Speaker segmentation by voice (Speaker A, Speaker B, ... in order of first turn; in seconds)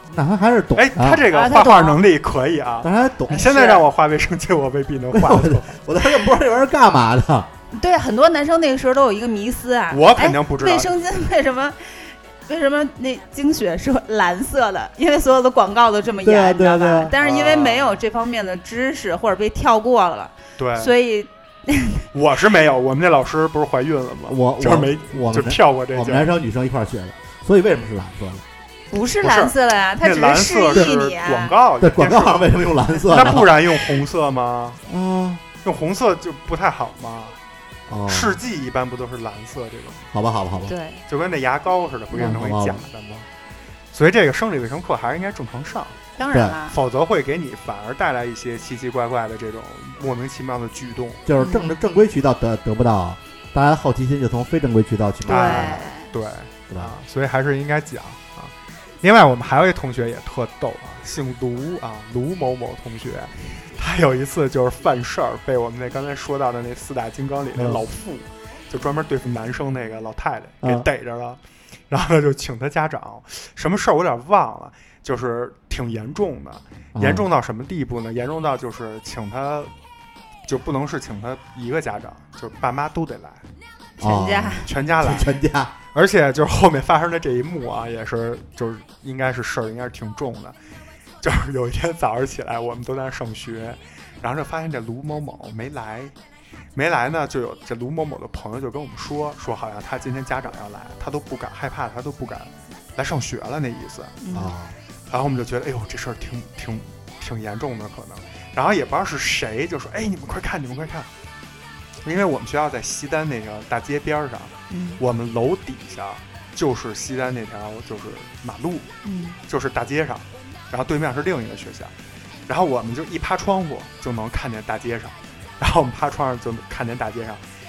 Speaker A: 0.1-1.3, 2.8-3.5, 5.1-7.5, 16.2-17.1, 24.3-28.4, 31.8-33.6, 34.9-35.4, 37.9-38.4, 40.1-40.7, 42.2-42.8, 46.3-46.6, 51.2-55.8, 56.7-56.9, 67.5-67.8, 70.6-70.9, 76.9-77.2, 84.0-85.7, 104.3-104.7
Speaker B: 0.7-5.7, 9.9-10.9, 17.2-18.0, 20.6-20.9, 22.1-26.3, 29.2-34.8, 35.6-37.4, 38.1-40.1, 41.1-43.3, 43.9-46.0, 46.7-51.2, 55.2-79.7, 80.5-83.4, 84.6-85.3, 85.9-90.5, 91.2-96.1, 96.7-104.2, 105.1-111.1, 112.0-118.9, 119.5-121.9, 122.5-127.4
Speaker C: 1.3-2.0, 3.3-3.8, 7.7-22.1, 28.9-31.5, 40.7-41.0, 46.1-46.7, 51.4-51.7, 55.3-56.1, 84.0-84.7, 104.2-104.5, 114.7-115.0, 119.0-119.4